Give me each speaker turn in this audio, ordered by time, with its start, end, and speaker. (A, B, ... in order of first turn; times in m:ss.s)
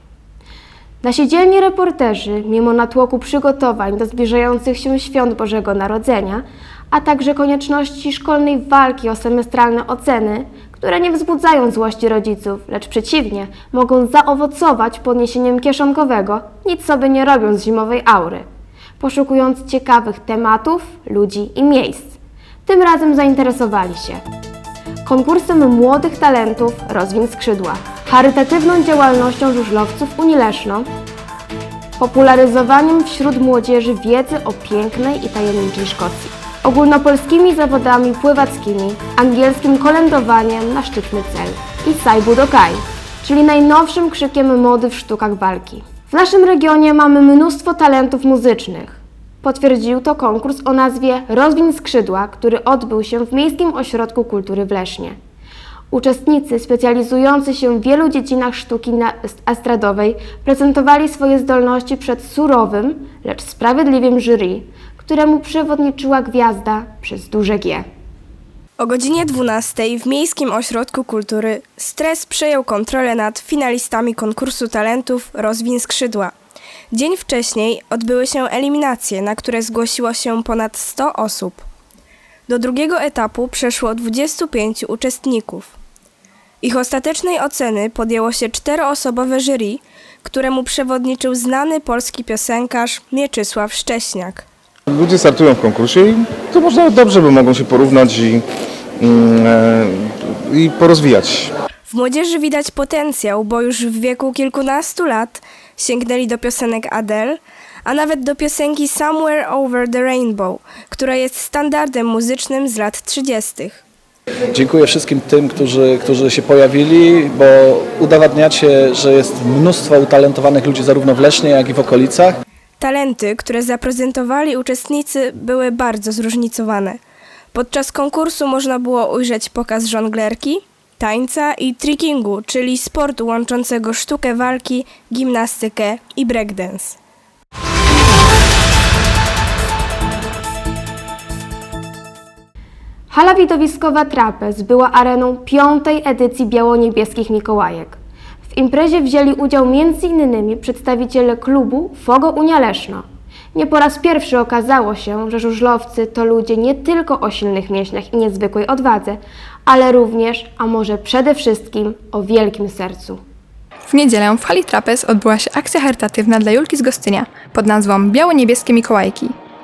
0:01.0-0:18.4 A
0:19.0-0:24.2 A
0:25.0-0:30.9 A
0:32.0-0:55.2 A
0:55.9-1:07.8 A
1:08.8-1:16.3 B
1:16.9-1:21.6 B
1:22.5-1:25.8 B
1:26.6-1:34.4 B
1:34.9-1:38.4 C
1:39.0-1:39.9 C
1:40.5-1:41.5 C
1:41.9-1:53.8 B
1:54.5-2:02.4 D
2:02.8-2:07.0 B
2:07.5-2:17.0 B
2:23.1-2:28.0 A
2:28.5-2:43.2 A
2:43.9-2:49.3 E